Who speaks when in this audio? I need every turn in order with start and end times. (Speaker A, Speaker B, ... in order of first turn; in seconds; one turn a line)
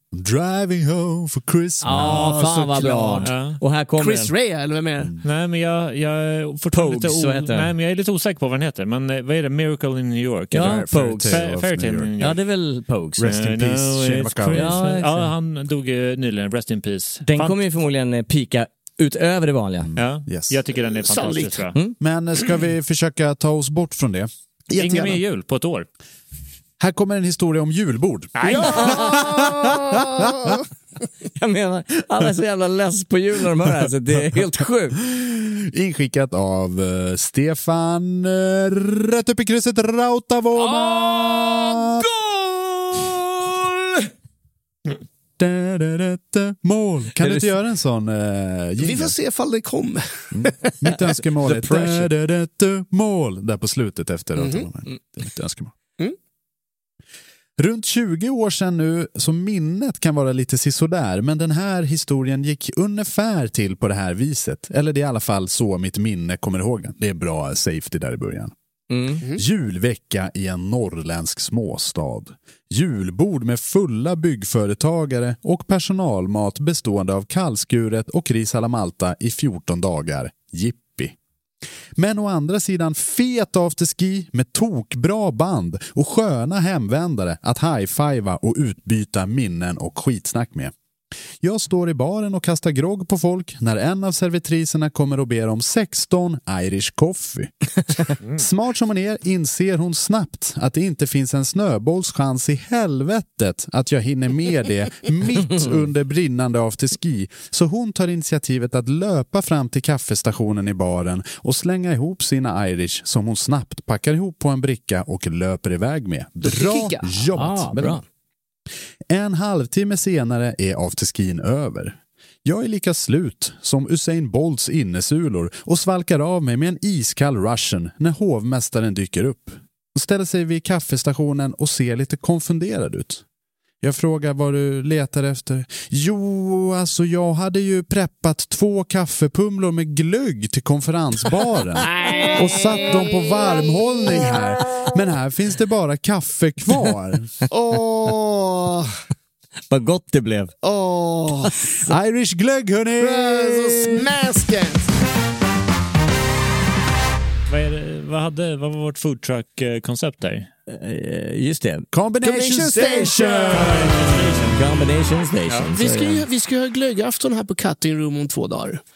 Speaker A: 0.1-3.2
Speaker B: 1.8-4.3
Speaker C: 3.0-3.2
Speaker D: 3.2-3.6
Speaker C: 4.0-5.1
Speaker D: 5.2-12.4
Speaker B: 6.7-7.7
Speaker B: 10.5-11.4
Speaker A: 10.5-12.1
Speaker B: 12.2-13.3
Speaker A: 13.2-14.8
Speaker D: 13.2-17.6
Speaker B: 14.5-15.3
Speaker B: 17.2-19.9
Speaker A: 19.8-20.6
Speaker D: 20.0-21.7
Speaker C: 20.9-21.7
Speaker A: 22.0-25.2
Speaker D: 24.7-25.9
Speaker A: 26.8-30.6
Speaker D: 28.4-28.7
Speaker C: 28.5-30.6
Speaker B: 28.6-29.2
Speaker B: 31.4-35.0
Speaker A: 35.0-42.0
Speaker C: 40.6-43.2
Speaker A: 45.4-49.1
Speaker C: 48.8-50.5
Speaker A: 50.3-55.7
Speaker B: 51.4-52.1
Speaker C: 54.4-54.6
Speaker A: 57.6-68.5
Speaker B: 68.9-69.2
Speaker A: 69.3-81.2
Speaker A: 82.0-90.7
Speaker A: 91.4-97.5
Speaker A: 98.3-118.0
Speaker C: 116.4-117.1
Speaker B: 117.3-118.0
Speaker A: 119.1-133.2
Speaker A: 133.8-147.3
Speaker C: 141.9-143.5
Speaker C: 147.5-148.9
Speaker B: 149.7-150.5
Speaker C: 150.6-151.7
Speaker A: 151.8-154.1
Speaker C: 153.0-154.9
Speaker D: 157.5-160.5
Speaker B: 160.7-161.9
Speaker A: 161.9-164.2
Speaker C: 162.2-163.7
Speaker D: 163.5-164.6
Speaker B: 164.4-166.2
Speaker C: 165.7-168.8